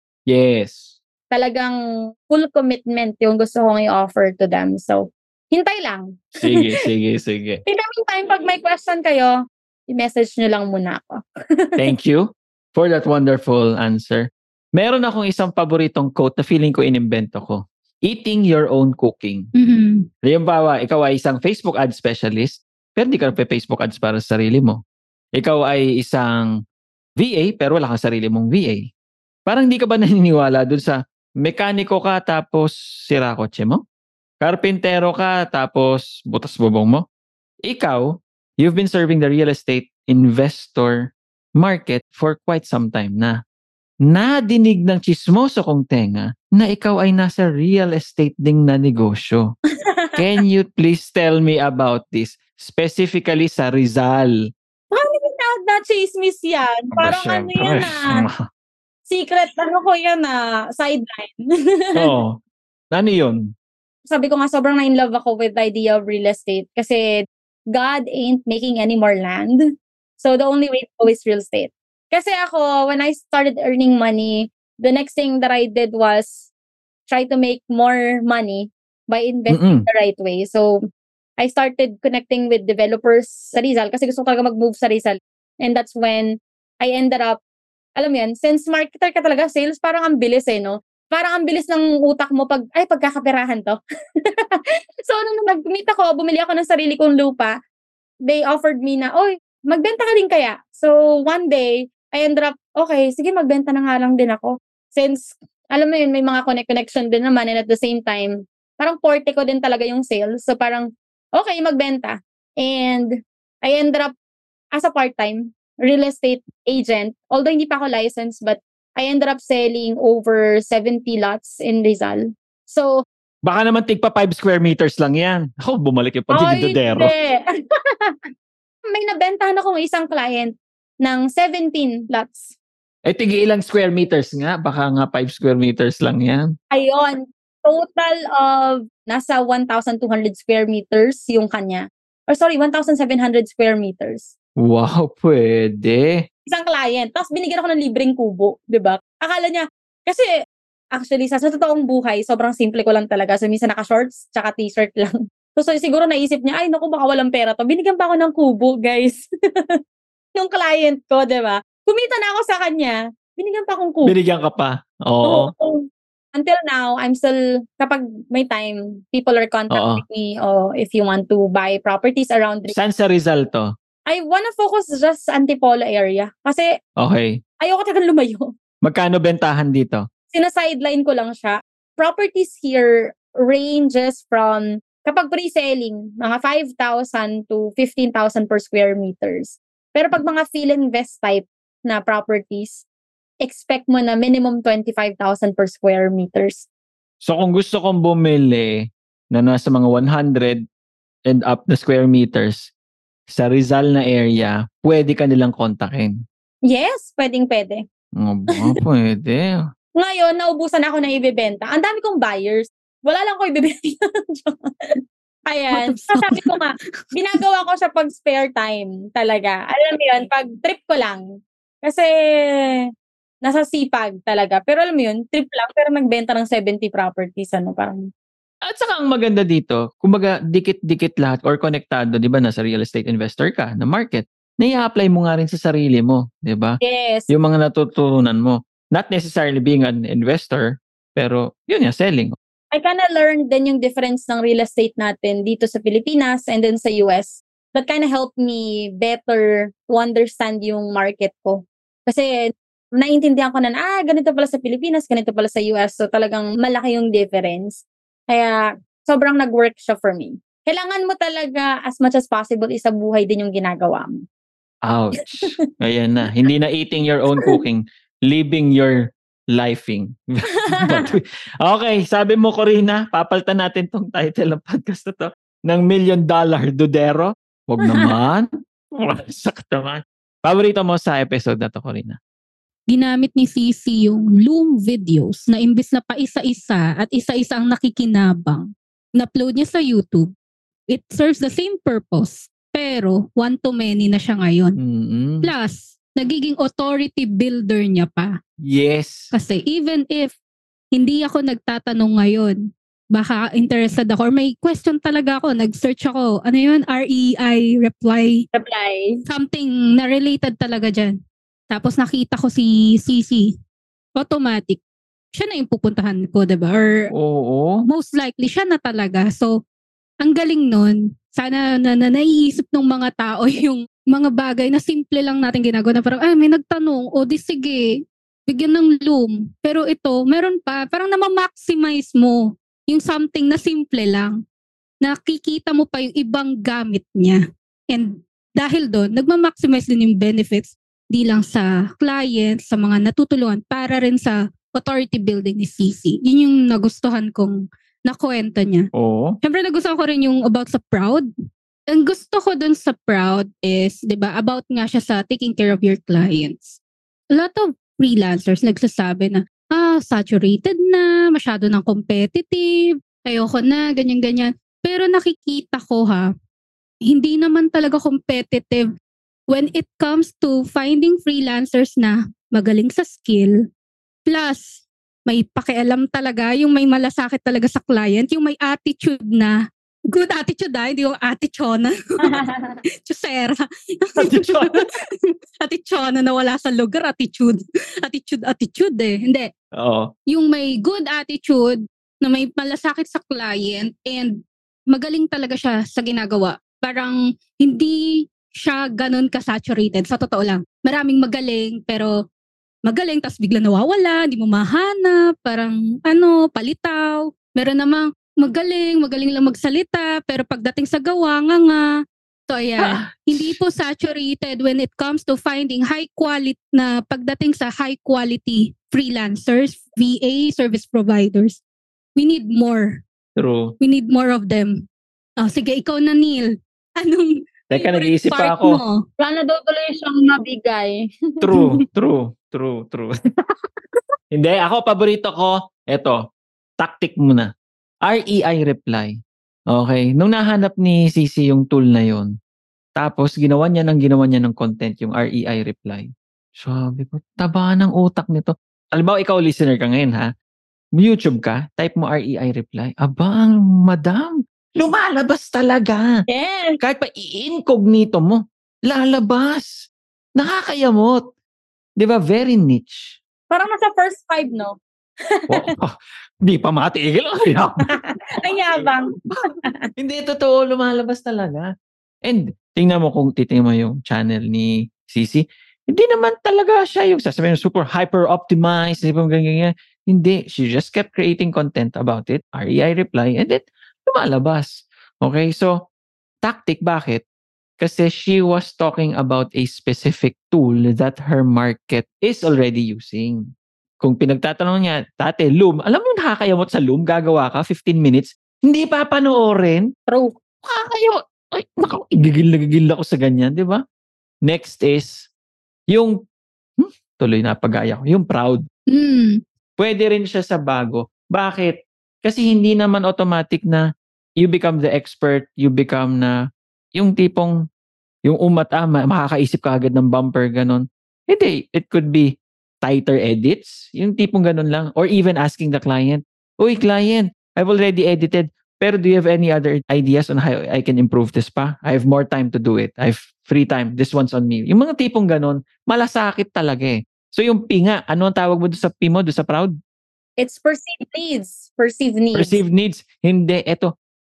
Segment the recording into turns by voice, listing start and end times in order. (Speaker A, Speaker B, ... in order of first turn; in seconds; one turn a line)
Speaker A: 0.3-1.0
Speaker B: 1.3-1.7
Speaker B: 2.3-6.6
Speaker A: 6.4-7.6
Speaker B: 7.7-9.3
Speaker B: 9.9-11.8
Speaker A: 11.8-19.5
Speaker C: 19.6-20.1
Speaker A: 20.2-24.8
Speaker A: 25.4-26.5
Speaker A: 27.2-28.9
Speaker A: 29.5-33.8
Speaker A: 34.4-37.0
Speaker A: 37.6-43.4
Speaker A: 44.0-49.5
Speaker B: 49.9-50.2
Speaker A: 50.1-54.4
Speaker B: 54.9-58.2
Speaker A: 56.9-58.4
Speaker B: 59.0-62.1
Speaker A: 62.0-62.4
Speaker A: 62.9-63.5
Speaker B: 64.1-67.0
Speaker B: 67.7-69.6
Speaker B: 70.2-76.5
Speaker B: 77.1-80.8
Speaker A: 79.5-79.9
Speaker B: 81.4-86.3
Speaker B: 86.8-87.4
Speaker B: 88.0-97.5
Speaker B: 98.3-113.1
Speaker B: 113.6-114.1
Speaker B: 114.8-122.9
Speaker A: 123.4-127.1
Speaker B: 126.3-127.4
Speaker B: 128.9-132.5
Speaker A: 133.1-136.5
Speaker B: 136.7-144.3
Speaker A: 144.6-146.2
Speaker B: 146.4-150.3
Speaker B: 150.9-159.8
Speaker B: 160.3-164.1
Speaker A: 164.1-165.5
Speaker B: 165.2-172.7
Speaker A: 169.7-170.0
Speaker A: 172.7-173.7
Speaker B: 174.1-176.7
Speaker A: 177.0-177.4
Speaker B: 177.6-178.5
Speaker A: 178.8-180.0
Speaker B: 180.3-192.8
Speaker B: 193.4-196.7
Speaker A: 197.2-200.6
Speaker A: 201.3-202.7
Speaker A: 203.3-206.1
Speaker B: 206.7-207.8
Speaker A: 208.2-209.6
Speaker B: 210.0-214.6
Speaker B: 215.5-221.2
Speaker C: 215.7-216.5
Speaker B: 221.8-222.8
Speaker B: 223.4-228.0
Speaker A: 228.6-236.8
Speaker B: 236.8-237.3
Speaker A: 237.3-242.3
Speaker B: 242.7-264.2
Speaker A: 264.9-282.2
Speaker B: 270.8-271.1
Speaker C: 282.9-290.3
Speaker C: 290.9-294.8
Speaker A: 294.8-295.5
Speaker C: 295.4-298.3
Speaker A: 298.6-299.2
Speaker C: 299.3-300.3
Speaker C: 300.9-302.6
Speaker C: 303.1-308.4
Speaker B: 308.5-309.2
Speaker C: 309.3-311.1
Speaker C: 311.7-313.5
Speaker C: 314.1-314.8
Speaker C: 315.3-316.9
Speaker A: 317.1-317.8
Speaker C: 317.9-319.5
Speaker C: 320.2-327.9
Speaker C: 328.5-334.4
Speaker C: 335.0-337.4
Speaker C: 337.9-348.9
Speaker A: 348.9-349.4
Speaker C: 349.4-351.3
Speaker C: 351.9-356.8
Speaker C: 357.3-366.3
Speaker C: 367.1-368.9
Speaker C: 369.5-373.6
Speaker C: 374.2-379.5
Speaker C: 380.1-382.4
Speaker B: 382.2-382.8
Speaker C: 383.0-385.0
Speaker A: 384.2-384.8
Speaker C: 385.6-389.5
Speaker A: 389.8-390.1
Speaker C: 390.3-402.1
Speaker C: 402.8-411.9
Speaker C: 412.5-421.6
Speaker A: 412.8-413.6
Speaker C: 422.1-423.0
Speaker A: 423.4-423.7
Speaker C: 423.8-424.8
Speaker C: 425.4-429.0
Speaker A: 427.7-428.8
Speaker B: 429.2-431.4
Speaker A: 431.4-433.1
Speaker A: 434.3-436.2
Speaker A: 436.8-437.5
Speaker A: 438.0-439.2
Speaker A: 439.7-442.3
Speaker A: 443.0-450.3
Speaker A: 451.0-456.2
Speaker B: 456.3-456.8
Speaker A: 456.8-461.3
Speaker A: 462.0-463.2
Speaker B: 463.5-464.8
Speaker B: 465.4-465.6
Speaker A: 465.5-467.9
Speaker B: 467.9-469.9
Speaker A: 469.3-471.7
Speaker A: 472.2-485.7
Speaker A: 486.4-487.2
Speaker A: 487.8-493.4
Speaker A: 494.0-499.9
Speaker B: 500.1-500.4
Speaker A: 500.6-503.8
Speaker A: 504.4-505.3
Speaker A: 506.8-508.6
Speaker C: 508.9-509.4
Speaker A: 509.8-513.8
Speaker A: 514.4-516.3
Speaker A: 517.0-517.5
Speaker A: 518.3-539.7
Speaker B: 540.4-542.6
Speaker A: 542.3-543.9